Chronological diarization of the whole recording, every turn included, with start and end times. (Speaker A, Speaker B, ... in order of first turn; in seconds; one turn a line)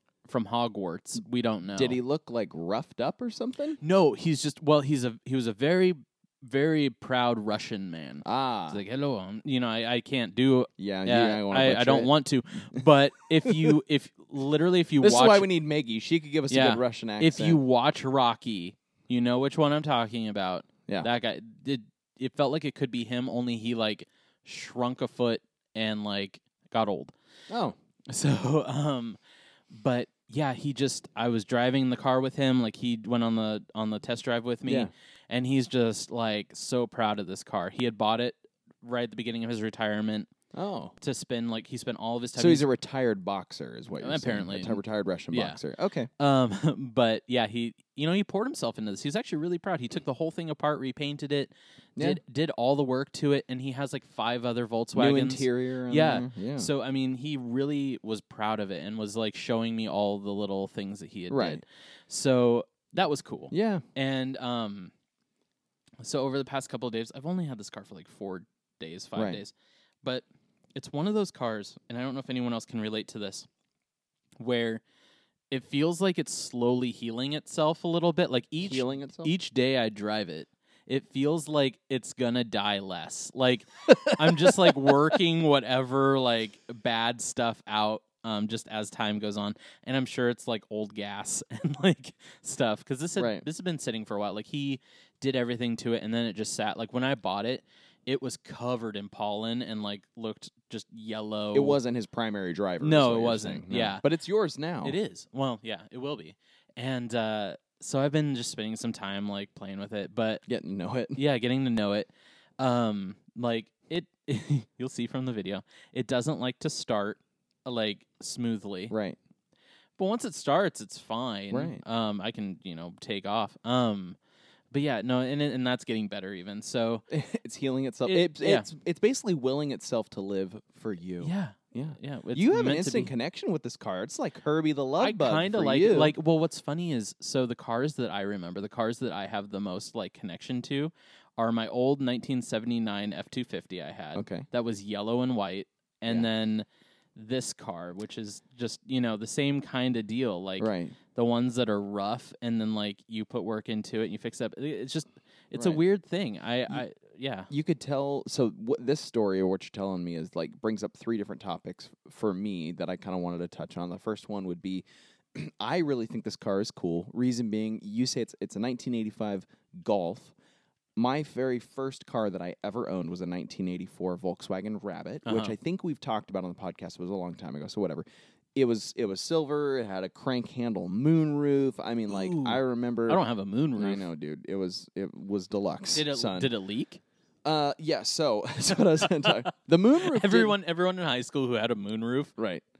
Speaker A: 0.2-2.0
Speaker B: 1.7-3.8
Speaker A: 3.8-15.5
Speaker B: 8.2-8.8
Speaker B: 10.8-12.1
Speaker B: 13.4-13.7
Speaker B: 15.0-17.6
Speaker A: 16.5-27.1
Speaker B: 27.5-27.8
Speaker A: 28.1-29.2
Speaker A: 29.7-40.3
Speaker B: 40.5-40.9
Speaker A: 41.0-42.6
Speaker B: 42.4-46.1
Speaker A: 44.0-44.8
Speaker A: 45.3-45.6
Speaker A: 46.2-64.9
Speaker B: 54.9-56.7
Speaker B: 61.3-61.6
Speaker B: 63.5-63.8
Speaker A: 66.0-73.5
Speaker B: 69.2-69.4
Speaker A: 74.4-74.8
Speaker A: 75.5-101.8
Speaker B: 78.6-79.3
Speaker B: 83.9-84.9
Speaker B: 93.2-93.5
Speaker B: 101.5-105.0
Speaker A: 102.8-104.0
Speaker A: 104.8-110.4
Speaker B: 110.5-111.2
Speaker A: 111.1-118.9
Speaker B: 118.9-119.2
Speaker A: 120.0-124.2
Speaker B: 121.5-121.8
Speaker A: 124.7-127.0
Speaker B: 127.1-136.1
Speaker A: 128.1-128.7
Speaker A: 131.2-133.1
Speaker A: 135.0-157.5
Speaker B: 144.1-144.5
Speaker B: 150.6-150.9
Speaker B: 155.5-155.8
Speaker B: 157.5-170.3
Speaker B: 170.9-183.2
Speaker A: 175.2-175.6
Speaker A: 182.1-184.1
Speaker B: 183.8-186.5
Speaker A: 185.9-187.0
Speaker B: 187.4-190.5
Speaker A: 189.0-192.3
Speaker B: 192.4-192.6